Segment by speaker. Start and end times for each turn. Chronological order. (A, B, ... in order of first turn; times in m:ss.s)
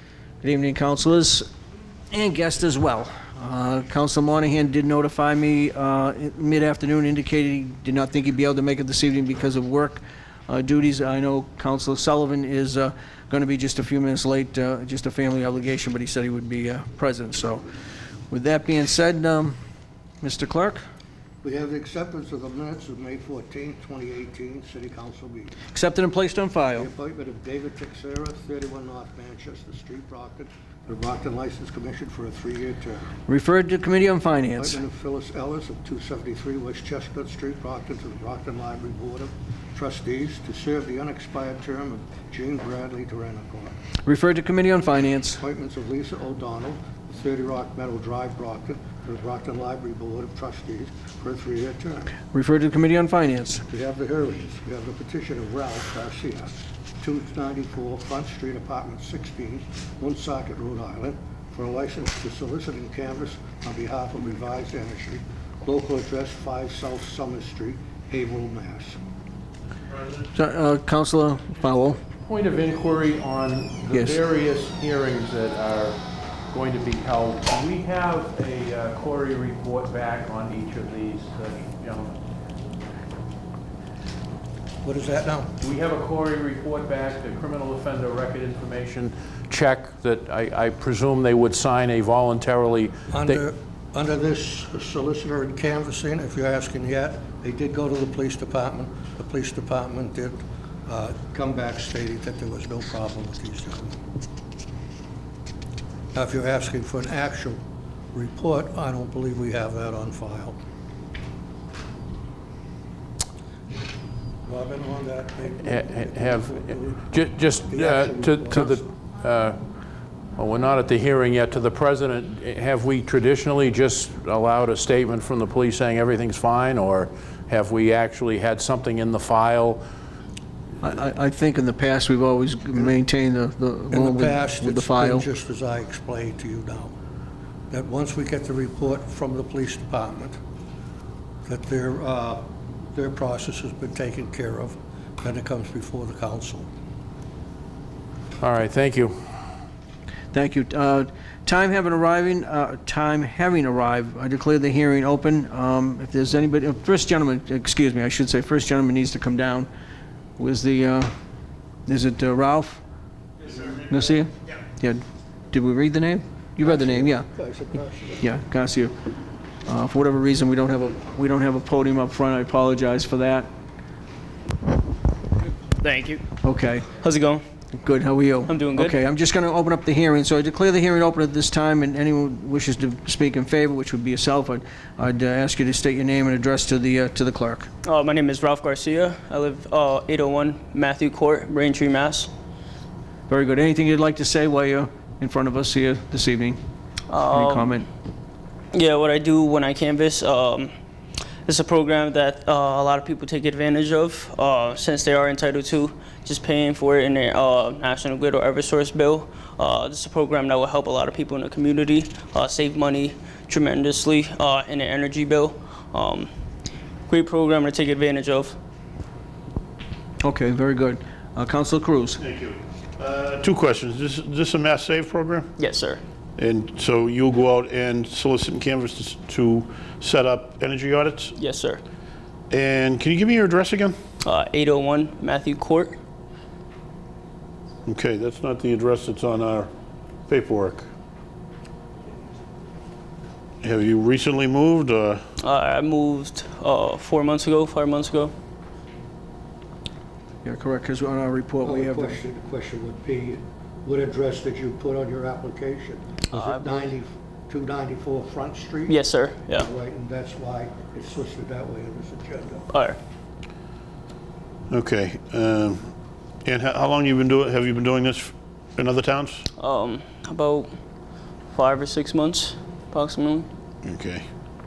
0:00.4-0:01.5 A
0:02.1-0:17.6 A
0:18.3-0:19.6 A
0:20.2-0:20.8 A
0:21.4-0:25.6 B
0:25.7-0:26.9 A
0:26.8-0:33.1 B
0:33.3-0:34.8 A
0:34.6-0:43.8 B
0:44.0-0:45.4 A
0:45.4-0:52.1 B
0:52.3-0:53.6 A
0:53.7-1:09.0 B
1:10.3-1:12.0 A
1:12.3-1:22.2 C
1:13.9-1:14.2 A
1:24.8-1:25.5 B
1:25.6-1:33.4 C
1:33.1-1:44.0 B
1:46.1-1:47.6 B
1:48.1-1:50.6 B
1:54.4-1:57.0 B
1:55.6-1:59.6 C
1:57.7-1:58.8 B
2:00.4-2:09.8 C
2:10.8-2:15.3 A
2:13.9-2:16.9 B
2:17.7-2:20.4 B
2:21.4-2:26.7 B
2:28.4-2:29.2 C
2:30.3-2:39.7 A
2:40.4-2:41.1 A
2:41.9-2:42.8 A
2:43.9-2:47.3 A
2:46.6-2:48.3 B
2:48.2-2:49.0 A
2:49.7-2:53.5 A
2:55.7-2:56.2 D
2:56.4-2:56.9 A
2:57.0-2:57.4 D
2:57.7-3:07.7 A
2:58.5-2:59.0 D
3:07.8-3:12.3 D
3:13.3-3:16.6 A
3:17.1-3:17.7 D
3:17.2-3:17.9 A
3:18.7-3:20.7 D
3:21.5-3:36.3 D
3:37.1-3:38.6 D
3:40.2-3:42.2 A
3:42.2-3:45.5 E
3:45.6-3:46.0 D
3:46.4-3:51.4 E
3:51.4-3:51.8 D
3:52.5-3:54.0 E
3:54.2-3:56.0 D
3:57.9-3:59.7 E
4:00.3-4:00.9 E
4:03.6-4:05.2 E
4:05.4-4:08.3 D
4:10.4-4:12.2 A
4:11.6-4:19.0 B
4:16.3-4:16.9 D
4:18.9-4:19.7 D
4:19.5-4:22.7 B
4:22.7-4:23.0 D
4:24.7-4:25.8 E
4:26.4-4:29.4 E
4:29.6-4:30.7 D
4:31.5-4:33.5 D
4:33.9-4:34.2 E